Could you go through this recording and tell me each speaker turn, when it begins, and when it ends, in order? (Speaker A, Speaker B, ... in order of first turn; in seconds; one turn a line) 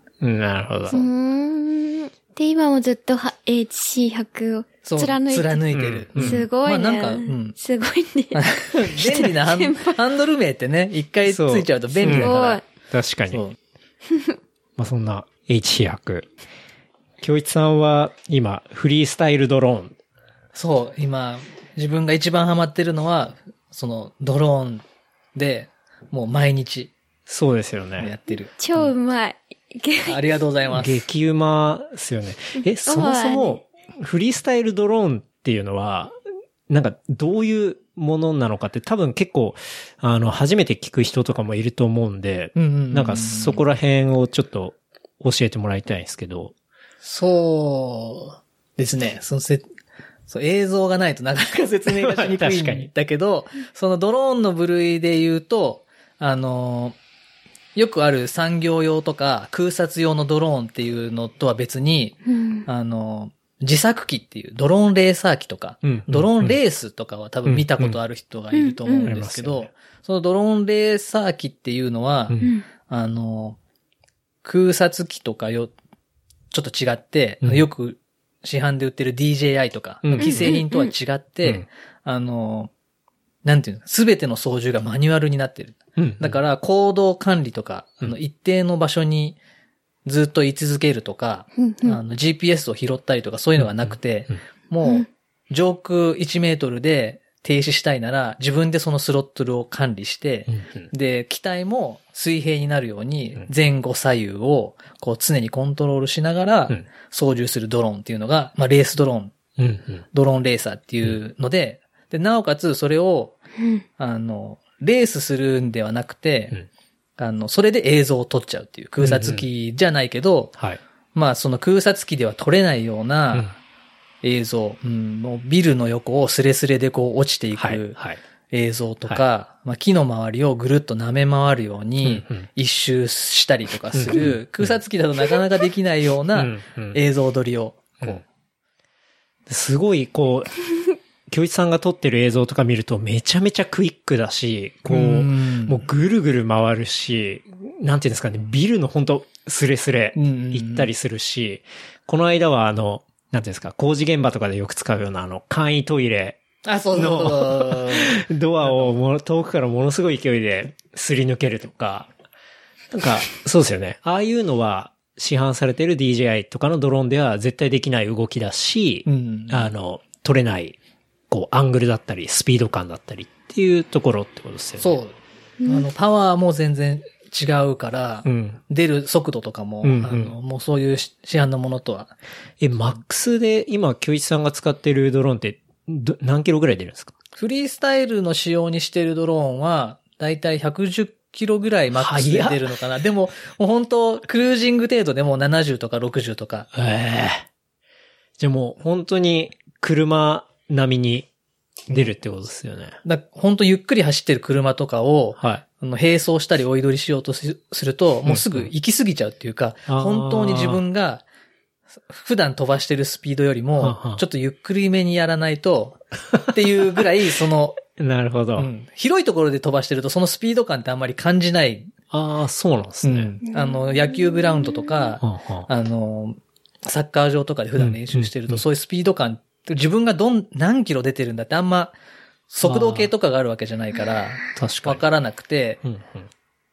Speaker A: 0.2-1.0
Speaker B: 0.9-10.0
Speaker C: 4.8-7.6
Speaker A: 5.7-6.5
Speaker C: 8.3-12.6
Speaker A: 11.3-12.4
Speaker B: 12.0-12.6
Speaker A: 12.9-13.4
Speaker C: 13.3-13.6
Speaker A: 14.8-16.3
Speaker A: 17.2-19.9
Speaker C: 20.6-24.8
Speaker C: 25.4-26.9
Speaker A: 27.3-28.1
Speaker C: 28.0-28.9
Speaker B: 28.6-30.2
Speaker C: 30.1-31.0
Speaker A: 30.7-36.1
Speaker B: 32.6-33.6
Speaker A: 36.7-46.5
Speaker C: 42.5-43.6
Speaker C: 47.0-49.6
Speaker C: 50.3-57.0
Speaker A: 51.9-52.9
Speaker C: 57.8-72.4
Speaker B: 62.3-62.7
Speaker A: 65.8-66.6
Speaker A: 67.5-68.0
Speaker B: 68.5-69.1
Speaker A: 69.0-69.7
Speaker B: 72.4-72.7
Speaker C: 72.9-73.6
Speaker C: 74.4-75.7
Speaker C: 76.5-82.7
Speaker A: 80.0-80.6
Speaker B: 80.2-80.9
Speaker C: 83.5-89.4
Speaker A: 86.0-86.4
Speaker C: 90.0-109.3
Speaker B: 91.6-92.0
Speaker A: 93.6-93.9
Speaker A: 100.5-100.9
Speaker A: 109.6-110.0
Speaker C: 110.1-113.4
Speaker B: 113.6-113.8
Speaker C: 114.0-116.6
Speaker C: 117.2-120.5
Speaker A: 119.0-119.5
Speaker C: 121.2-123.5
Speaker C: 124.2-128.0
Speaker A: 127.6-128.2
Speaker C: 128.5-138.2
Speaker A: 132.0-132.5
Speaker A: 133.9-134.8
Speaker A: 136.3-137.0
Speaker A: 139.5-140.6
Speaker A: 141.3-156.4
Speaker C: 144.9-145.8
Speaker C: 150.2-150.9
Speaker C: 156.7-158.9
Speaker A: 156.9-162.1
Speaker A: 162.9-170.8
Speaker C: 169.1-169.7
Speaker A: 171.3-175.0
Speaker C: 174.8-175.1
Speaker B: 175.6-175.9
Speaker C: 175.7-182.1
Speaker A: 178.2-178.6
Speaker A: 179.8-180.3
Speaker A: 182.6-187.1
Speaker C: 187.4-196.7
Speaker A: 191.9-192.7
Speaker A: 196.7-197.5
Speaker A: 198.4-201.3
Speaker A: 201.9-203.0
Speaker C: 203.0-211.2
Speaker A: 205.4-205.6
Speaker A: 208.3-208.7
Speaker A: 209.9-210.8
Speaker C: 212.1-217.8
Speaker A: 213.8-214.2
Speaker A: 218.0-218.7
Speaker C: 218.6-221.9
Speaker A: 222.1-223.3
Speaker C: 223.0-231.9
Speaker B: 223.5-225.0
Speaker A: 225.2-225.7
Speaker A: 227.8-228.6
Speaker C: 232.5-235.8
Speaker A: 232.6-233.1
Speaker A: 234.6-235.0
Speaker A: 235.8-236.3